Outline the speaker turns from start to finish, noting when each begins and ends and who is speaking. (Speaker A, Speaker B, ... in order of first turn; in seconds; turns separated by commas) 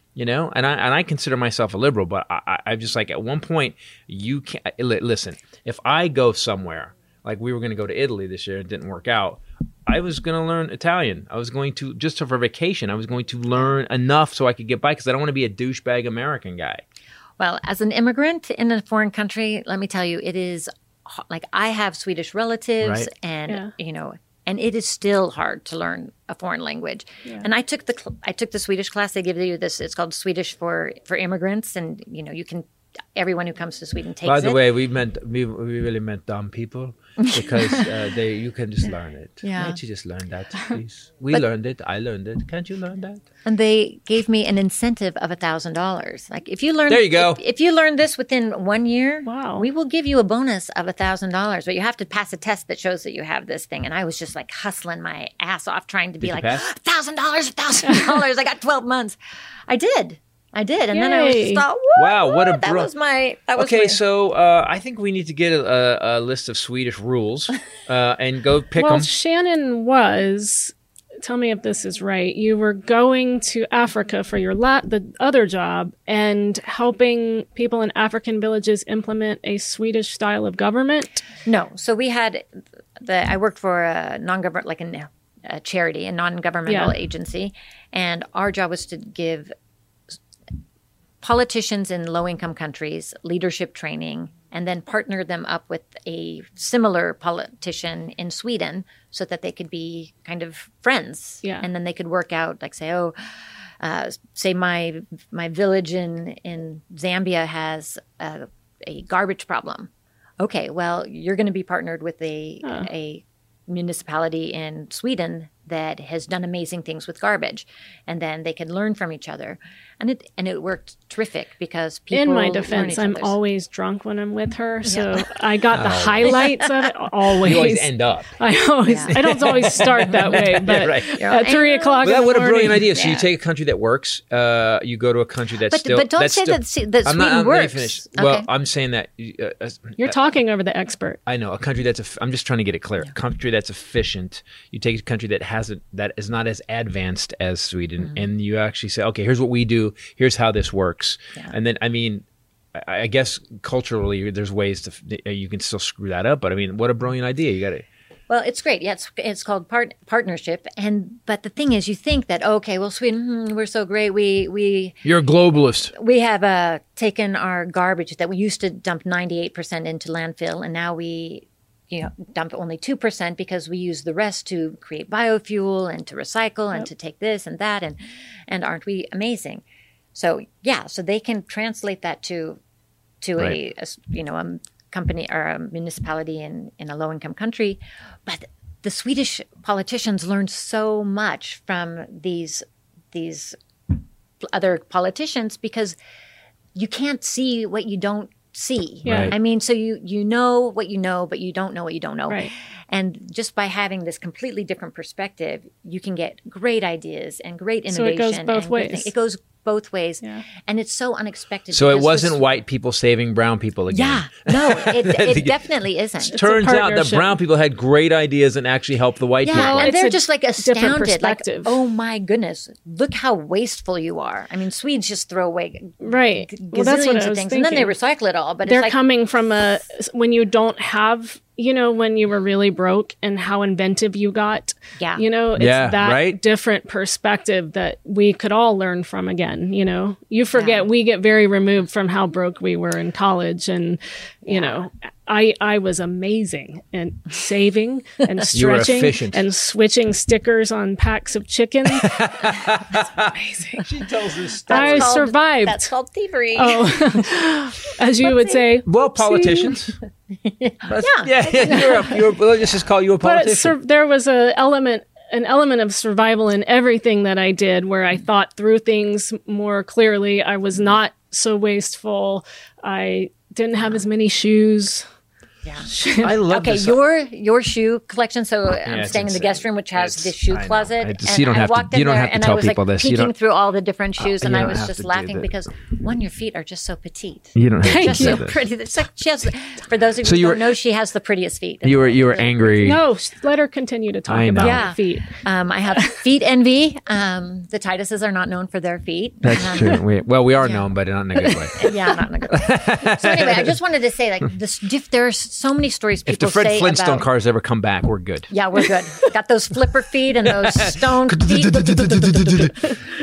Speaker A: 0.1-16.8, Speaker B: 17.4-34.6, Speaker A: 22.8-23.1, Speaker A: 34.2-43.2, Speaker B: 37.2-37.9, Speaker B: 39.4-39.8, Speaker B: 43.4-59.2, Speaker A: 46.9-47.4, Speaker C: 49.3-49.7, Speaker A: 56.2-56.6, Speaker C: 57.9-58.2, Speaker B: 59.7-64.0, Speaker C: 60.9-61.6, Speaker A: 62.0-62.9, Speaker A: 63.6-69.1, Speaker C: 68.8-81.2, Speaker B: 81.4-82.4, Speaker B: 83.0-89.5, Speaker C: 86.7-86.9, Speaker B: 91.2-103.2, Speaker B: 103.8-123.3, Speaker C: 122.1-132.8, Speaker B: 124.8-125.3, Speaker A: 125.7-126.4, Speaker B: 126.2-126.9, Speaker A: 127.4-128.3, Speaker B: 128.8-133.3, Speaker A: 129.1-131.2, Speaker A: 132.0-140.2, Speaker B: 135.7-138.5, Speaker C: 140.0-141.2, Speaker A: 141.3-157.8, Speaker B: 158.3-165.1, Speaker A: 165.0-165.9, Speaker B: 165.9-179.6, Speaker B: 180.1-182.6, Speaker B: 183.2-195.9, Speaker B: 196.7-212.4, Speaker C: 199.1-199.3, Speaker A: 199.1-199.3, Speaker C: 207.9-209.1, Speaker A: 211.7-215.5, Speaker B: 213.9-216.3, Speaker A: 216.3-219.9, Speaker C: 216.3-217.4, Speaker B: 219.4-228.9, Speaker C: 219.5-221.7, Speaker C: 226.0-227.9, Speaker C: 228.7-252.2, Speaker B: 235.0-235.2, Speaker A: 235.6-236.4, Speaker B: 240.5-240.9, Speaker B: 244.5-244.8, Speaker A: 248.5-249.4, Speaker A: 251.9-253.3, Speaker C: 253.5-253.8, Speaker A: 253.8-255.2, Speaker C: 254.7-255.9, Speaker B: 254.7-257.2, Speaker C: 256.6-259.7, Speaker B: 258.2-258.6, Speaker A: 258.9-259.9, Speaker B: 260.4-262.2, Speaker A: 260.9-263.7, Speaker C: 263.2-275.1, Speaker B: 275.6-275.9, Speaker C: 275.8-276.4, Speaker A: 276.2-277.0, Speaker B: 276.5-293.0, Speaker A: 278.9-283.3, Speaker A: 284.2-285.6, Speaker A: 287.6-288.6, Speaker C: 287.9-288.4, Speaker A: 290.2-290.6, Speaker A: 291.8-293.0, Speaker C: 292.8-295.4, Speaker A: 294.3-294.8, Speaker B: 294.6-300.0, Speaker A: 299.4-302.0, Speaker B: 300.6-300.9, Speaker B: 301.7-307.3, Speaker A: 302.5-303.8, Speaker A: 306.3-308.5, Speaker B: 308.5-313.0, Speaker A: 310.5-312.9